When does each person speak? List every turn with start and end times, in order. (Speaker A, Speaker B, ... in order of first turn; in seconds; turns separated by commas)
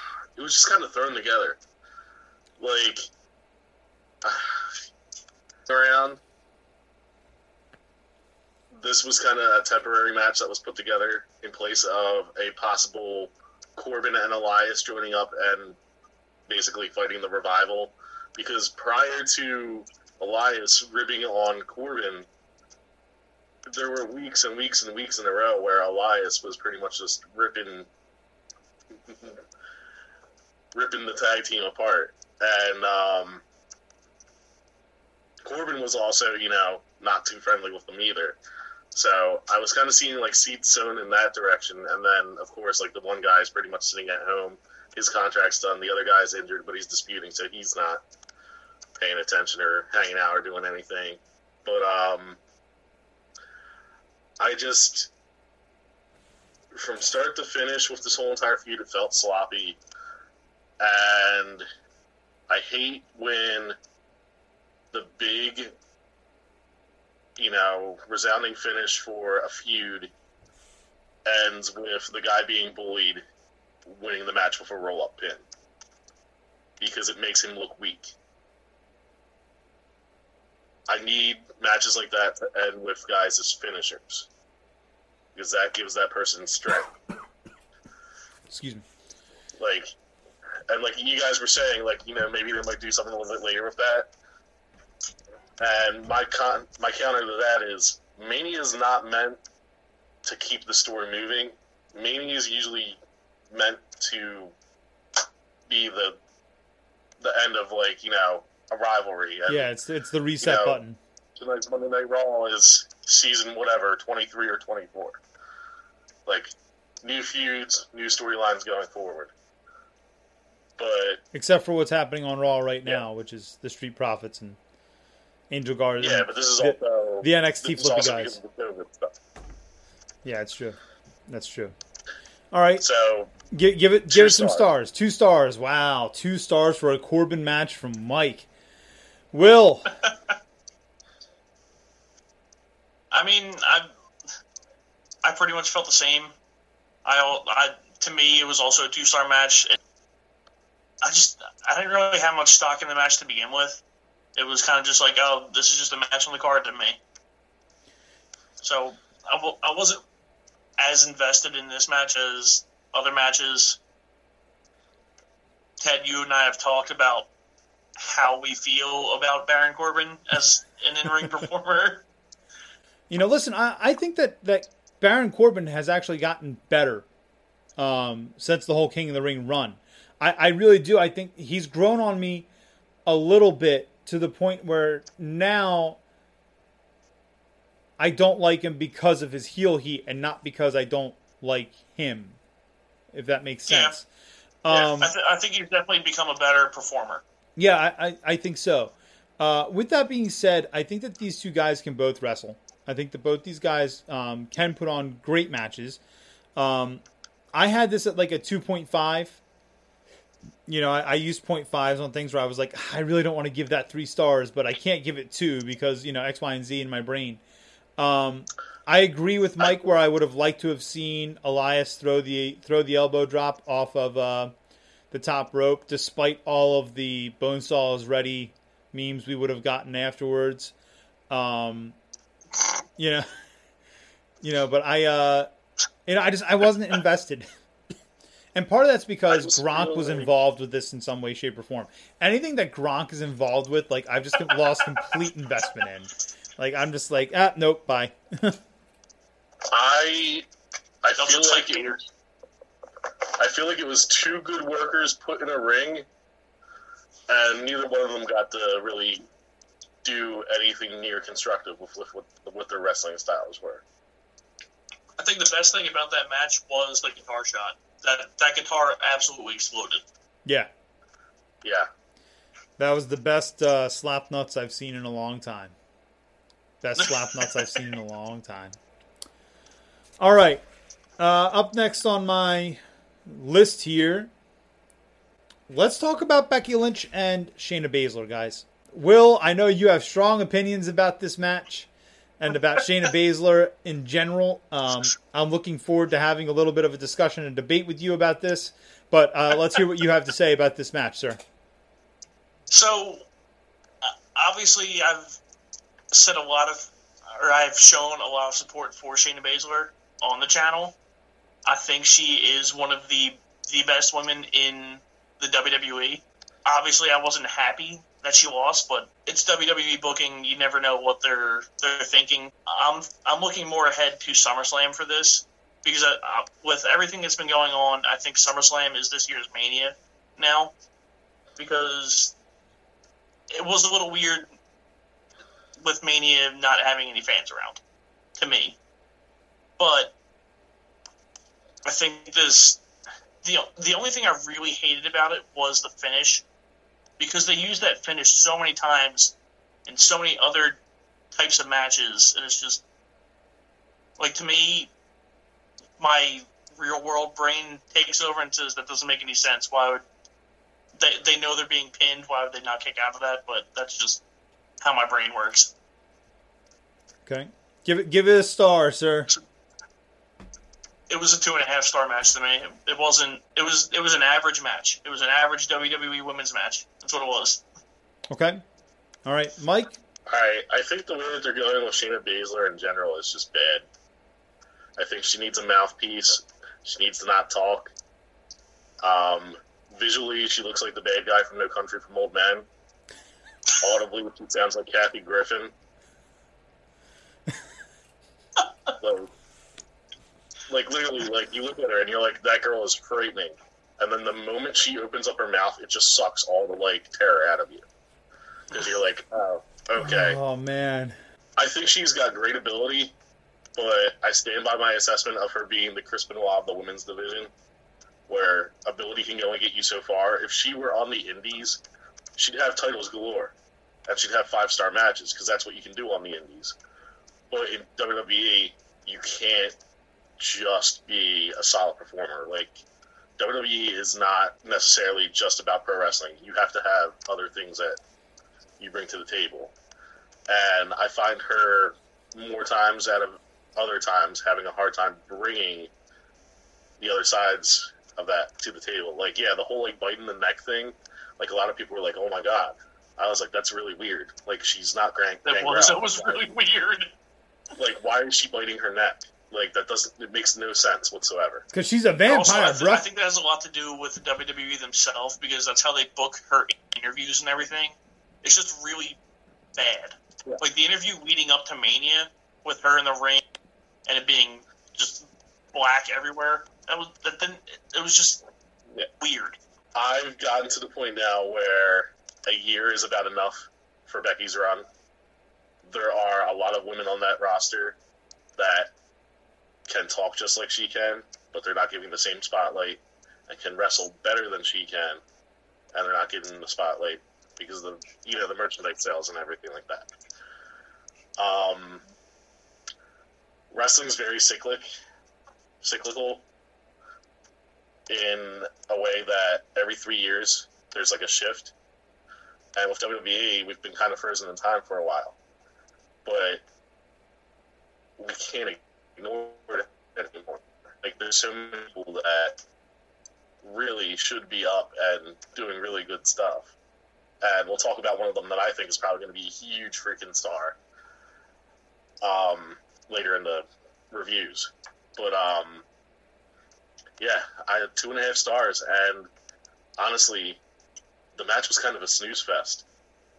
Speaker A: 0.4-1.6, Speaker A: 2.6-3.1, Speaker A: 4.2-4.7, Speaker A: 5.7-6.2, Speaker A: 8.7-15.8, Speaker A: 16.5-22.3, Speaker A: 23.7-27.9, Speaker A: 29.1-29.4, Speaker A: 30.7-33.4, Speaker A: 35.4-38.4, Speaker A: 38.9-48.0, Speaker A: 49.0-52.4, Speaker A: 54.4-55.1, Speaker A: 56.7-59.8, Speaker A: 60.8-61.7, Speaker A: 62.5-63.8, Speaker A: 64.9-65.7, Speaker A: 67.4-70.1, Speaker A: 71.3-73.2, Speaker A: 73.9-75.4, Speaker A: 76.8-78.1, Speaker A: 80.9-84.3, Speaker A: 85.3-86.9, Speaker B: 88.5-88.9, Speaker A: 89.6-89.9, Speaker A: 90.7-94.1, Speaker A: 95.6-99.4, Speaker A: 100.2-103.0, Speaker A: 103.5-104.5, Speaker A: 105.7-106.2, Speaker A: 107.2-109.7, Speaker B: 109.5-111.0, Speaker A: 110.4-110.8, Speaker A: 111.4-115.2, Speaker A: 116.3-119.3, Speaker A: 120.8-121.2, Speaker B: 121.3-124.6, Speaker B: 125.5-128.4, Speaker A: 126.0-129.1, Speaker B: 130.2-131.8, Speaker B: 132.5-132.8, Speaker A: 132.8-133.3, Speaker B: 133.5-138.5, Speaker A: 134.1-134.6, Speaker B: 139.3-139.9, Speaker C: 143.1-143.9, Speaker C: 145.2-146.3, Speaker C: 147.1-149.8, Speaker C: 151.0-153.8, Speaker C: 154.4-157.0, Speaker C: 158.6-160.0, Speaker C: 160.8-163.8, Speaker C: 165.8-167.3, Speaker C: 168.0-172.1, Speaker B: 173.1-177.1, Speaker B: 177.8-182.5, Speaker B: 183.1-186.0, Speaker B: 188.0-192.4, Speaker B: 193.1-194.1, Speaker C: 193.7-194.0, Speaker B: 194.6-195.1, Speaker C: 194.7-197.2, Speaker B: 197.6-206.0, Speaker B: 206.6-207.0, Speaker B: 207.5-209.4, Speaker B: 210.7-217.4, Speaker B: 218.0-224.5, Speaker A: 219.6-219.9, Speaker B: 225.1-230.7, Speaker B: 231.3-232.0, Speaker B: 233.0-233.3, Speaker B: 234.4-235.5, Speaker B: 236.1-237.5, Speaker B: 238.5-248.6, Speaker A: 239.3-240.3, Speaker A: 249.7-250.5, Speaker A: 251.0-251.9, Speaker C: 251.2-252.1, Speaker A: 253.4-256.1, Speaker A: 257.3-259.2, Speaker A: 260.0-263.8, Speaker C: 265.2-270.0, Speaker A: 271.6-271.9, Speaker B: 272.8-275.8, Speaker B: 276.8-278.8, Speaker B: 280.2-280.6, Speaker B: 281.2-284.3, Speaker B: 285.7-301.4, Speaker C: 302.7-303.3, Speaker C: 304.1-305.4, Speaker C: 306.1-311.0, Speaker C: 311.6-330.8, Speaker C: 331.6-332.3, Speaker C: 333.5-334.5, Speaker C: 335.8-337.8, Speaker C: 338.4-338.8, Speaker C: 339.8-340.1, Speaker C: 341.9-342.8, Speaker C: 343.4-346.4, Speaker C: 347.2-349.4, Speaker C: 349.9-350.8, Speaker C: 351.3-352.8, Speaker C: 354.2-354.9, Speaker C: 356.0-360.1, Speaker C: 361.0-364.2, Speaker C: 364.8-365.7, Speaker B: 367.3-369.3, Speaker C: 371.1-377.6, Speaker B: 378.3-378.6, Speaker B: 379.3-380.0, Speaker A: 380.3-383.9, Speaker A: 385.0-387.9, Speaker A: 389.0-392.7, Speaker A: 393.8-395.7, Speaker C: 398.6-398.9, Speaker A: 399.0-399.3, Speaker A: 400.7-407.9, Speaker A: 408.7-410.4, Speaker B: 410.0-411.2, Speaker A: 411.6-413.1, Speaker A: 413.8-417.5, Speaker A: 418.3-421.8, Speaker A: 422.4-423.5, Speaker A: 424.1-426.8, Speaker A: 427.5-429.8, Speaker A: 430.4-432.8, Speaker A: 433.4-438.0, Speaker A: 438.8-439.7, Speaker A: 440.5-445.9, Speaker A: 447.0-456.4, Speaker C: 455.4-457.1, Speaker A: 457.8-461.7, Speaker B: 461.7-463.1, Speaker C: 462.3-469.2, Speaker C: 469.8-473.4, Speaker C: 474.1-478.4, Speaker C: 479.2-479.6, Speaker A: 479.9-484.9, Speaker A: 485.9-488.0, Speaker A: 488.6-488.9, Speaker A: 489.9-495.2, Speaker A: 495.9-500.1, Speaker A: 501.4-502.0, Speaker A: 503.7-504.9, Speaker A: 505.8-506.5, Speaker A: 508.1-511.7, Speaker A: 512.8-515.4, Speaker A: 516.2-516.6, Speaker A: 518.2-522.6, Speaker A: 523.6-526.7, Speaker A: 527.4-530.8, Speaker A: 532.2-535.9, Speaker A: 537.2-539.3, Speaker A: 540.0-540.6, Speaker A: 541.4-542.9